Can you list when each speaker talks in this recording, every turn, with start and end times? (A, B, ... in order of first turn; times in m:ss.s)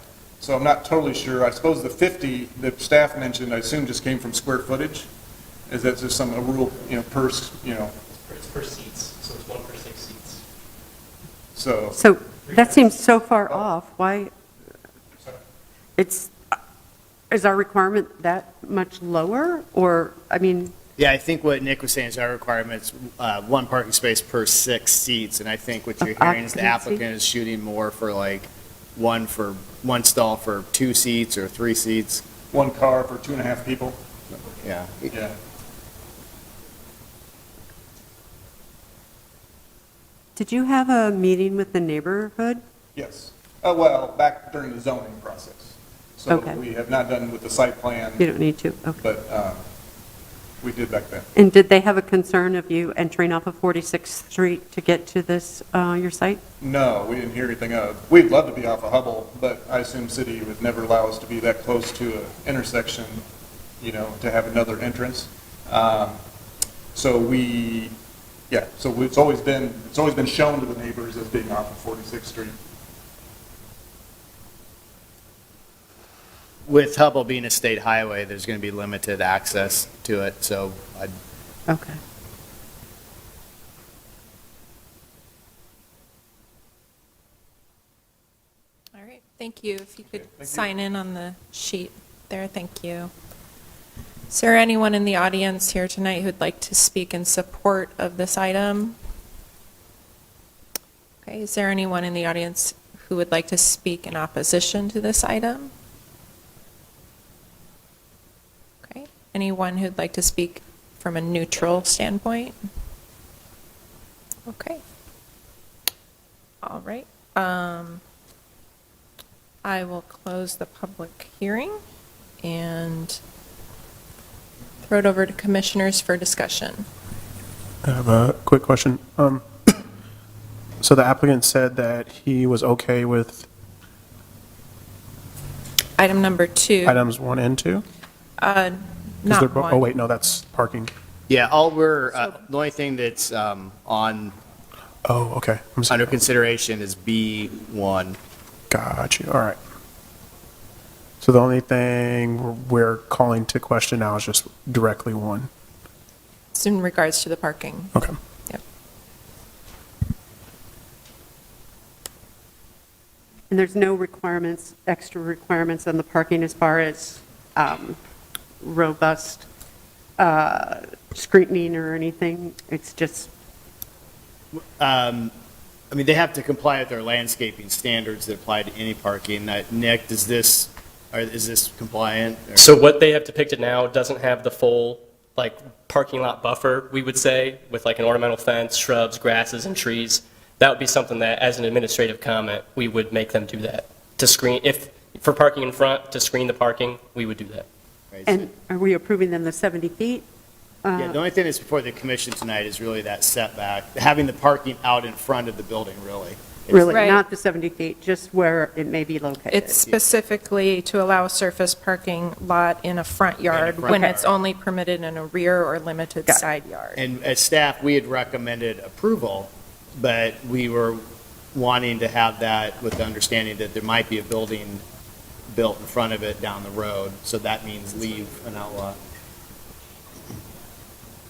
0:00.4-0:05.1 A
0:05.7-0:07.9 A
0:08.3-0:10.4 B
0:11.5-0:12.0 A
0:11.9-0:14.3 C
0:16.0-0:16.5 C
0:17.3-0:20.7 C
0:21.0-0:32.2 D
0:26.0-0:27.0 C
0:32.5-0:34.0 A
0:34.6-0:35.1 D
0:35.1-0:35.3 A
0:40.4-0:42.6 C
0:43.0-0:48.3 A
0:46.3-0:46.6 C
0:48.2-0:49.0 C
0:49.0-0:49.6 A
0:50.6-0:51.3 A
0:51.3-0:56.4 C
0:56.6-1:03.2 A
1:03.8-1:06.2 A
1:06.9-1:08.0 A
1:08.5-1:12.6 A
1:16.7-1:21.1 D
1:21.7-1:22.0 C
1:29.0-1:33.1 E
1:30.1-1:30.7 A
1:34.3-1:39.0 E
1:41.2-1:45.7 E
1:48.9-1:52.6 E
1:54.5-1:54.8 E
1:56.6-1:58.0 E
1:59.6-2:01.8 E
2:02.4-2:03.2 E
2:04.9-2:06.8 E
2:07.8-2:09.4 F
2:10.8-2:13.5 F
2:16.0-2:17.0 E
2:16.8-2:17.8 F
2:18.4-2:19.9 E
2:19.3-2:20.9 F
2:21.3-2:24.4 D
2:25.0-2:26.1 F
2:25.9-2:28.2 D
2:28.7-2:29.6 F
2:31.2-2:35.5 F
2:36.5-2:37.9 E
2:43.5-2:48.0 C
2:48.6-2:49.4 C
2:50.2-2:53.3 C
2:54.5-2:55.3 D
2:55.9-3:02.8 D
3:02.5-3:17.7 B
3:18.1-3:18.4 D
3:18.3-3:20.2 C
3:20.8-3:21.2 C
3:21.0-3:26.8 D
3:26.7-3:29.8 C
3:26.9-3:27.2 E
3:29.5-3:37.0 E
3:33.5-3:34.3 D
3:37.0-3:41.0 D
3:41.5-3:44.8 D
3:45.5-3:49.0 D